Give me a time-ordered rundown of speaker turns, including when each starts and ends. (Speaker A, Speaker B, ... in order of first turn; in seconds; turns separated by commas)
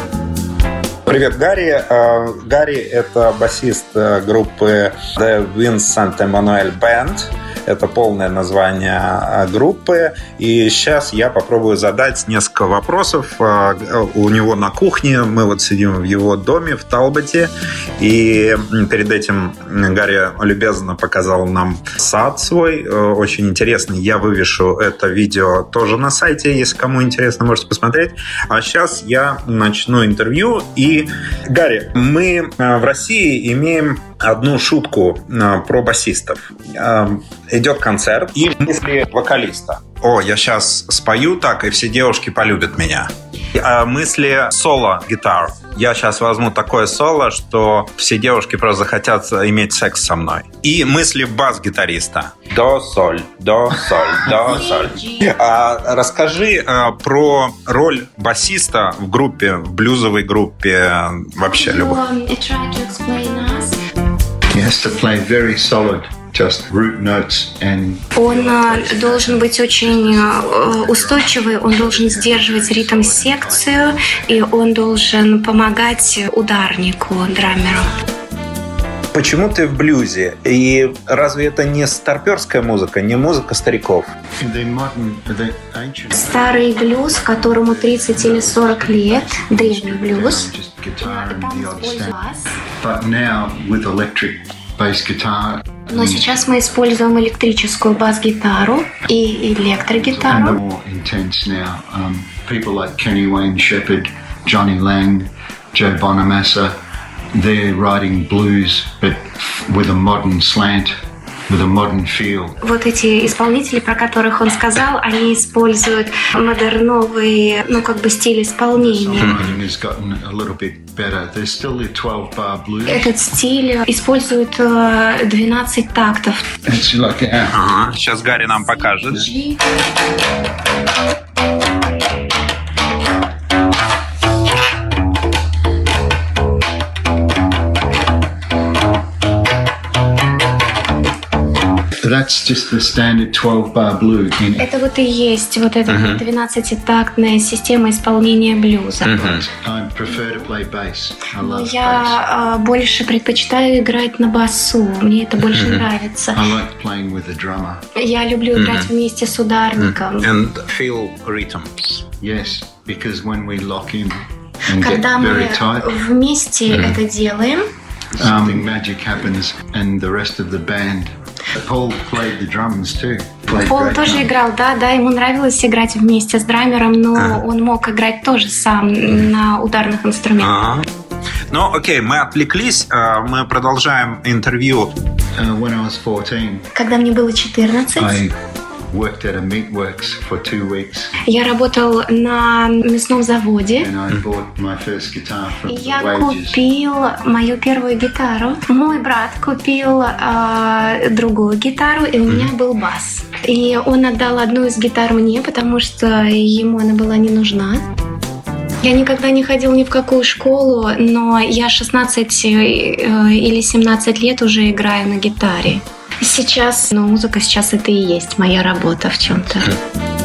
Speaker A: 1.1-62.0, Speaker B: 54.2-55.4, Speaker B: 61.4-63.8, Speaker C: 64.5-74.2, Speaker B: 68.1-77.9, Speaker A: 79.1-84.1, Speaker C: 84.4-92.1, Speaker B: 86.1-90.5, Speaker B: 91.0-92.5, Speaker C: 92.8-96.3, Speaker B: 95.9-100.6, Speaker C: 99.9-106.7, Speaker C: 107.3-110.9, Speaker C: 111.5-112.6, Speaker B: 112.6-119.4, Speaker C: 118.7-123.1, Speaker A: 119.2-119.5, Speaker B: 122.8-126.5, Speaker C: 126.6-127.6, Speaker A: 127.5-129.3, Speaker B: 128.4-129.6, Speaker C: 142.0-144.7, Speaker B: 144.6-149.4, Speaker A: 145.9-146.2, Speaker A: 149.0-149.4, Speaker C: 149.4-152.2, Speaker B: 150.1-150.5, Speaker B: 151.3-156.4, Speaker A: 155.4-155.8, Speaker C: 156.3-157.8, Speaker B: 157.9-160.3, Speaker A: 158.5-158.9, Speaker A: 159.8-162.0, Speaker C: 162.2-165.9, Speaker B: 164.7-167.7, Speaker A: 166.7-167.0, Speaker C: 168.2-174.4, Speaker B: 173.5-180.6, Speaker A: 177.2-177.4, Speaker A: 180.4-180.8, Speaker A: 181.5-184.9, Speaker C: 185.4-186.7, Speaker B: 186.7-188.2, Speaker C: 187.9-188.3, Speaker C: 188.9-191.1, Speaker B: 191.2-193.9, Speaker C: 193.8-196.6, Speaker B: 195.7-207.8, Speaker B: 208.8-219.8